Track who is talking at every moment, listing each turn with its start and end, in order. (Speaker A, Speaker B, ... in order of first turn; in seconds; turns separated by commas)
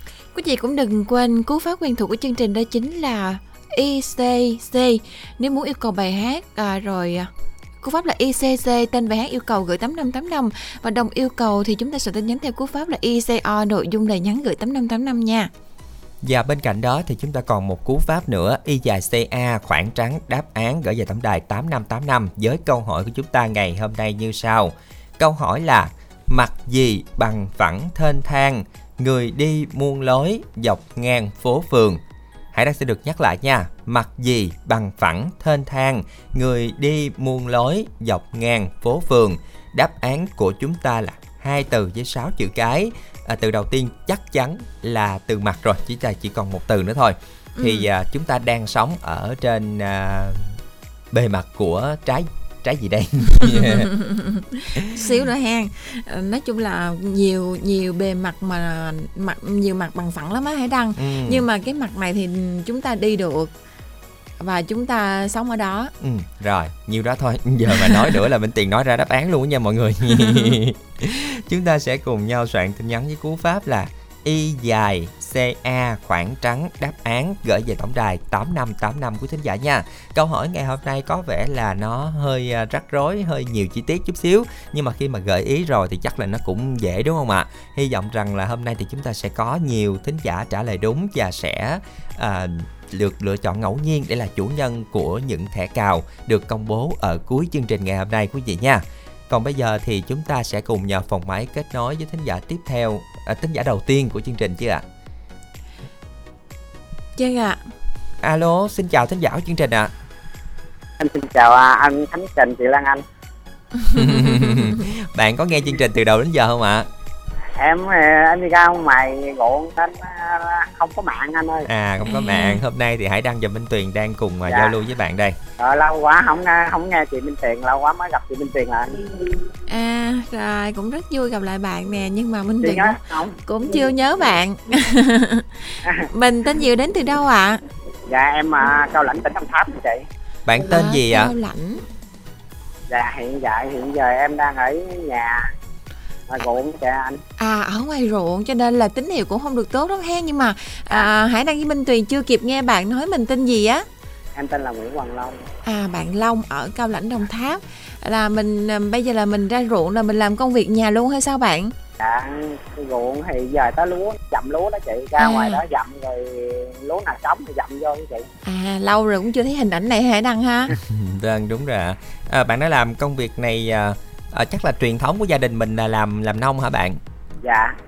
Speaker A: 0.3-7.3, Speaker A: 7.8-15.5, Speaker B: 16.2-32.0, Speaker B: 32.5-50.6, Speaker A: 47.6-47.9, Speaker B: 51.1-53.9, Speaker A: 53.6-63.5, Speaker B: 61.0-61.5, Speaker A: 64.4-65.9, Speaker B: 66.0-104.8, Speaker A: 107.2-107.6, Speaker B: 108.2-109.9, Speaker C: 111.0-113.0, Speaker A: 113.9-114.8, Speaker B: 113.9-116.9, Speaker C: 117.6-121.7, Speaker B: 121.7-125.4, Speaker A: 122.0-122.6, Speaker C: 124.5-124.7, Speaker C: 125.6-129.0, Speaker A: 129.7-137.6, Speaker C: 132.6-133.4, Speaker C: 138.1-140.1, Speaker B: 140.5-141.3, Speaker A: 140.6-141.8, Speaker C: 142.9-145.5, Speaker C: 146.3-147.2, Speaker A: 147.4-153.9, Speaker C: 154.3-155.4, Speaker A: 155.7-161.7, Speaker C: 162.0-168.3, Speaker A: 165.2-165.6, Speaker A: 168.4-170.8, Speaker B: 170.8-177.0, Speaker C: 177.4-177.8